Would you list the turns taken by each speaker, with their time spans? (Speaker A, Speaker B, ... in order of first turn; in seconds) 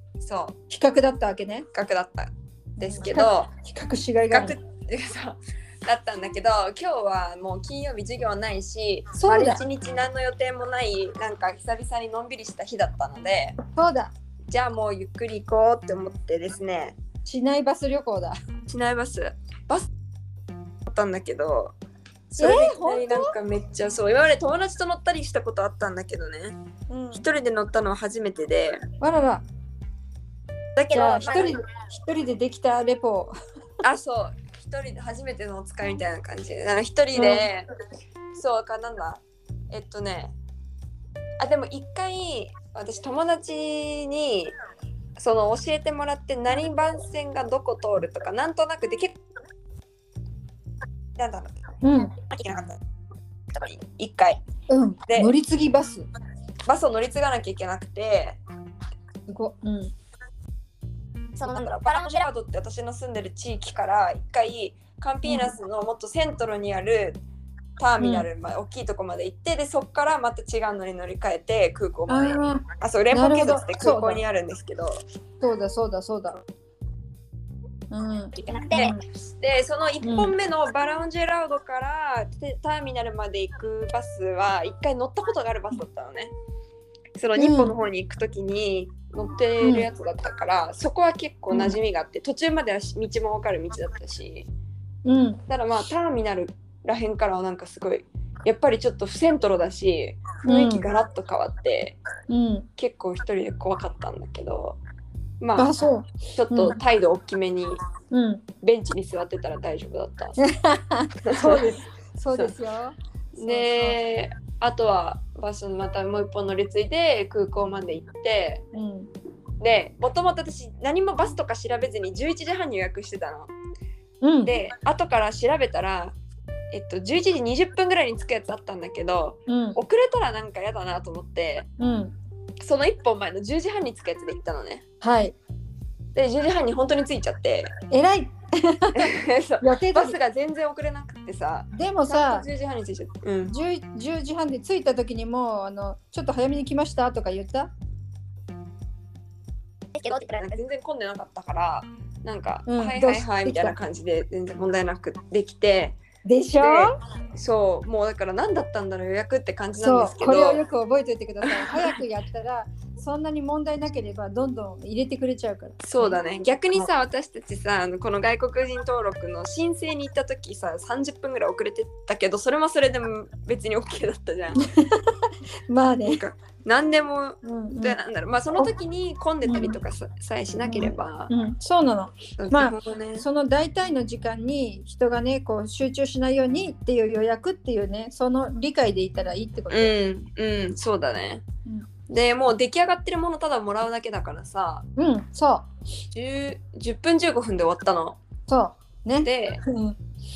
Speaker A: 0.2-0.6, 1.7-3.5, 4.3-13.6, 14.5-17.0, 18.7-19.9, 20.9-21.8, 22.3-26.6, 27.1-28.8, 30.8-31.6, 33.8-37.7, 38.4-40.3, 41.4-44.5, 45.2-49.2, 51.2-51.6, 52.3-52.8, 53.5-54.4, 55.1-55.3, 56.7-58.4, 61.4-67.2, 67.8-75.0, 78.4-86.3, 87.2-94.5, 95.5-102.0, 102.8-104.8, 105.4-105.7, 106.3-107.8, 108.6-110.4, 111.3-111.7, 113.4-118.6, 119.6-123.5, 124.5-126.2, 126.7-131.7, 132.6-134.8, 136.2-137.7, 138.9-143.6, 150.1-156.0, 156.6-160.6, 161.4-162.0, 165.8-174.6, 176.0-181.3, 182.4-183.3, 189.7-191.4, 192.1-194.9, 196.1-198.2, 199.2-199.6
Speaker B: 0.7-1.7, 2.8-4.6, 9.1-9.6, 13.6-14.1, 17.2-18.4, 22.4-23.4, 26.9-27.2, 29.0-29.4, 30.9-33.4, 37.1-37.5, 51.8-52.1, 54.7-56.0, 59.3-59.9, 65.2-65.5, 68.0-68.3, 72.1-74.2, 75.4-76.4, 77.9-79.0, 80.0-80.3, 87.4-87.7, 89.6-89.9, 95.0-95.4, 100.4-100.9, 102.3-102.7, 105.6-106.8, 108.1-108.5, 110.4-114.0, 118.7-119.1, 124.2-124.5, 129.5-129.8, 131.8-132.2, 135.0-135.4, 137.9-140.2, 141.7-142.5, 143.5-147.7, 152.7-153.8, 156.2-156.9, 159.8-166.2, 174.6-176.2, 177.4-178.0, 179.4-179.8, 180.6-189.9, 195.0-195.7, 198.5-199.9
Speaker C: 61.4-62.2, 78.5-78.9, 149.9-150.5